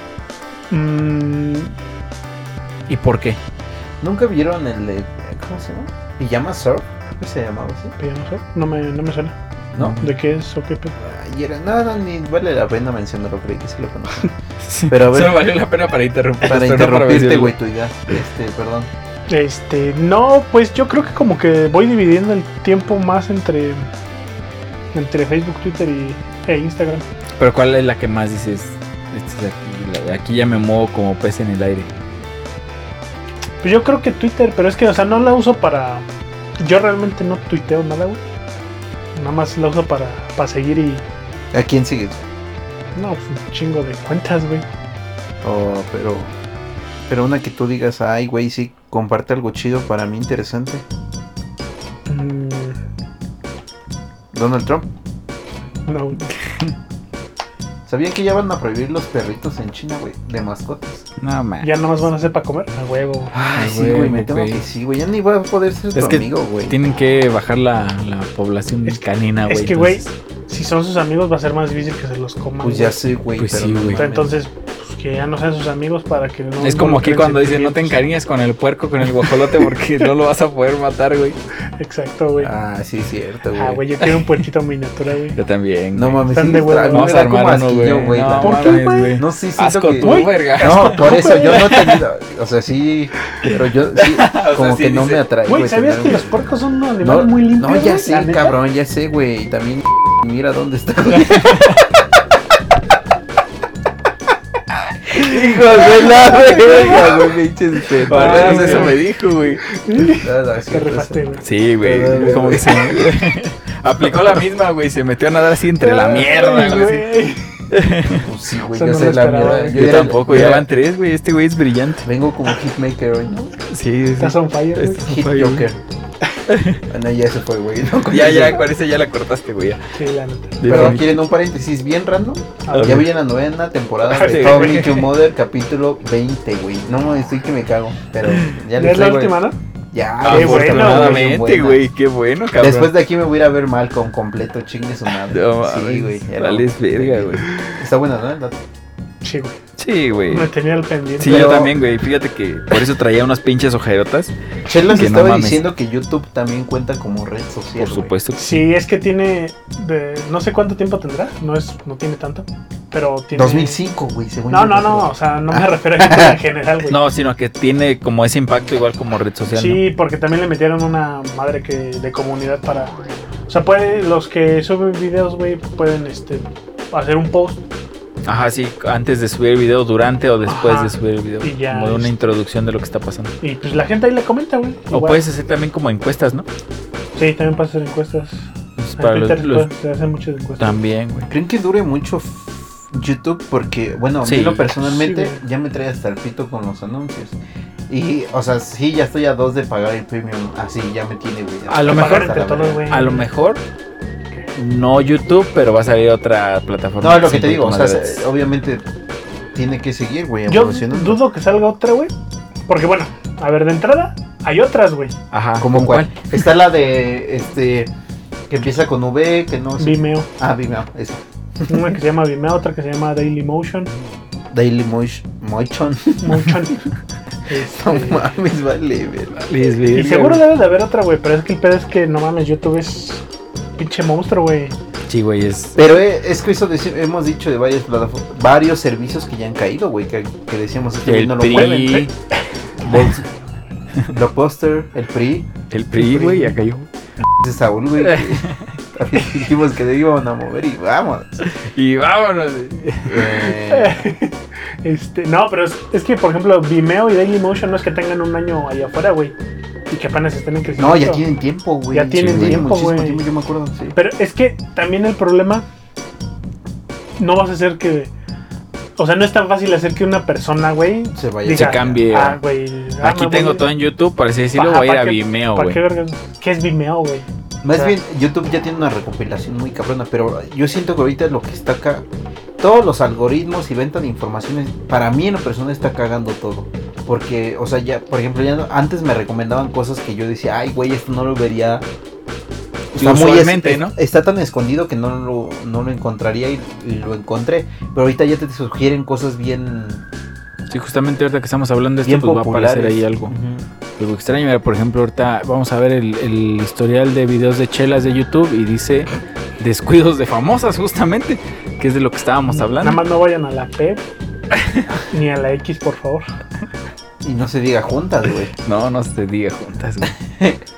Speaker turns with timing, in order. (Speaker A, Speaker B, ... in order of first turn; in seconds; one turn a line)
Speaker A: 0.7-1.7
Speaker B: 2.9-3.4
Speaker C: 4.0-8.0
Speaker A: 8.0-9.4
Speaker C: 9.7-10.0
Speaker B: 9.8-10.1
Speaker A: 10.0-11.0
Speaker C: 11.0-14.3
Speaker B: 14.6-17.5
Speaker C: 14.9-15.4
Speaker C: 16.4-18.9
Speaker A: 19.3-23.9
Speaker A: 24.9-27.1
Speaker B: 27.4-31.9
Speaker A: 33.6-36.1
Speaker A: 36.6-38.2
Speaker A: 39.1-41.0
Speaker C: 41.5-42.2
Speaker A: 43.0-44.7
Speaker C: 45.4-46.4
Speaker C: 47.1-50.9
Speaker A: 52.1-52.8
Speaker C: 54.3-54.9
Speaker A: 55.9-56.2
Speaker C: 57.9-61.1
Speaker B: 61.2-61.9
Speaker A: 61.6-63.4
Speaker C: 63.3-66.8
Speaker B: 63.5-64.6
Speaker B: 66.0-70.1
Speaker A: 68.9-73.0
Speaker C: 72.6-74.3
Speaker B: 73.4-74.0
Speaker A: 74.0-78.0
Speaker B: 76.6-81.4
Speaker A: 79.2-80.1
Speaker A: 81.8-82.5
Speaker C: 82.4-83.9
Speaker A: 83.5-85.4
Speaker B: 85.4-86.2
Speaker C: 85.9-96.3
Speaker A: 86.3-87.2
Speaker B: 86.9-92.0
Speaker A: 88.4-89.2
Speaker A: 90.0-91.8
Speaker B: 93.5-95.2
Speaker A: 95.5-98.5
Speaker C: 97.0-101.8
Speaker B: 101.1-101.8
Speaker C: 105.1-109.0
Speaker B: 105.2-109.7
Speaker A: 108.1-109.0
Speaker A: 109.7-111.5
Speaker C: 110.1-113.1
Speaker B: 111.4-117.1
Speaker A: 115.8-117.6
Speaker B: 117.7-118.3
Speaker C: 118.1-120.7
Speaker A: 118.7-119.8
Speaker B: 119.7-122.1
Speaker C: 122.0-123.5
Speaker B: 123.7-125.7
Speaker A: 124.2-125.0
Speaker C: 125.0-125.8
Speaker B: 126.5-126.8
Speaker C: 126.9-128.7
Speaker B: 128.1-129.8
Speaker A: 129.9-131.0
Speaker B: 130.6-131.2
Speaker C: 130.7-139.4
Speaker A: 132.7-133.0
Speaker B: 132.7-133.1
Speaker A: 134.1-135.1
Speaker B: 134.2-135.0
Speaker B: 138.3-138.6
Speaker A: 138.8-139.6
Speaker C: 139.9-141.8
Speaker B: 140.2-142.9
Speaker A: 140.3-141.3
Speaker C: 142.6-148.6
Speaker B: 145.3-147.6
Speaker A: 149.2-149.6
Speaker B: 149.8-150.5
Speaker A: 150.3-151.6
Speaker B: 151.2-154.3
Speaker C: 151.2-151.8
Speaker C: 154.7-158.1
Speaker B: 154.9-155.6
Speaker B: 157.8-158.6
Speaker A: 158.4-163.8
Speaker C: 163.3-166.4
Speaker A: 164.5-167.0
Speaker B: 166.9-169.8
Speaker A: 169.5-172.9
Speaker A: 173.5-177.6
Speaker B: 178.2-183.4
Speaker A: 180.5-182.2
Speaker A: 183.4-185.2
Speaker B: 184.9-186.5
Speaker A: 187.2-190.8
Speaker B: 188.8-189.7
Speaker B: 190.6-191.3
Speaker C: 191.3-197.4
Speaker B: 194.2-194.7
Speaker A: 194.8-195.4
Speaker C: 197.9-202.8
Speaker B: 201.7-203.6
Speaker A: 201.9-203.3
Speaker B: 204.5-208.2
Speaker C: 207.0-208.8
Speaker C: 209.5-211.2
Speaker A: 210.5-212.1
Speaker A: 212.7-215.2
Speaker B: 215.3-216.4
Speaker C: 215.6-217.9
Speaker C: 218.5-222.0
Speaker A: 219.8-220.3
Speaker A: 221.7-223.9
Speaker C: 224.5-226.6
Speaker A: 226.2-226.9
Speaker A: 227.5-228.2
Speaker C: 227.7-229.5
Speaker B: 229.4-230.4
Speaker A: 229.9-233.2
Speaker A: 233.8-234.8
Speaker B: 235.1-235.8
Speaker C: 235.8-242.1
Speaker B: 241.1-242.1
Speaker C: 242.8-243.3
Speaker C: 244.1-245.5
Speaker B: 245.7-246.9
Speaker A: 246.0-246.5
Speaker C: 247.4-251.4
Speaker B: 248.0-248.6
Speaker B: 251.4-253.5
Speaker C: 253.1-254.0
Speaker A: 253.7-259.4
Speaker A: 259.9-261.2
Speaker C: 260.8-264.0
Speaker A: 261.9-263.3
Speaker B: 262.2-262.6
Speaker A: 263.9-265.6
Speaker A: 267.2-268.1
Speaker A: 269.0-273.7
Speaker C: 271.1-272.1
Speaker B: 271.5-272.4
Speaker B: 273.0-275.8
Speaker A: 274.6-277.9
Speaker C: 277.6-282.1
Speaker C: 282.6-291.9
Speaker C: 292.9-300.1
Speaker B: 292.9-293.9
Speaker B: 300.7-303.3
Speaker C: 302.0-303.7
Speaker B: 304.0-313.0
Speaker A: 312.5-314.0
Speaker A: 315.1-316.3
Speaker C: 317.2-318.5
Speaker B: 318.6-320.2
Speaker C: 320.1-320.6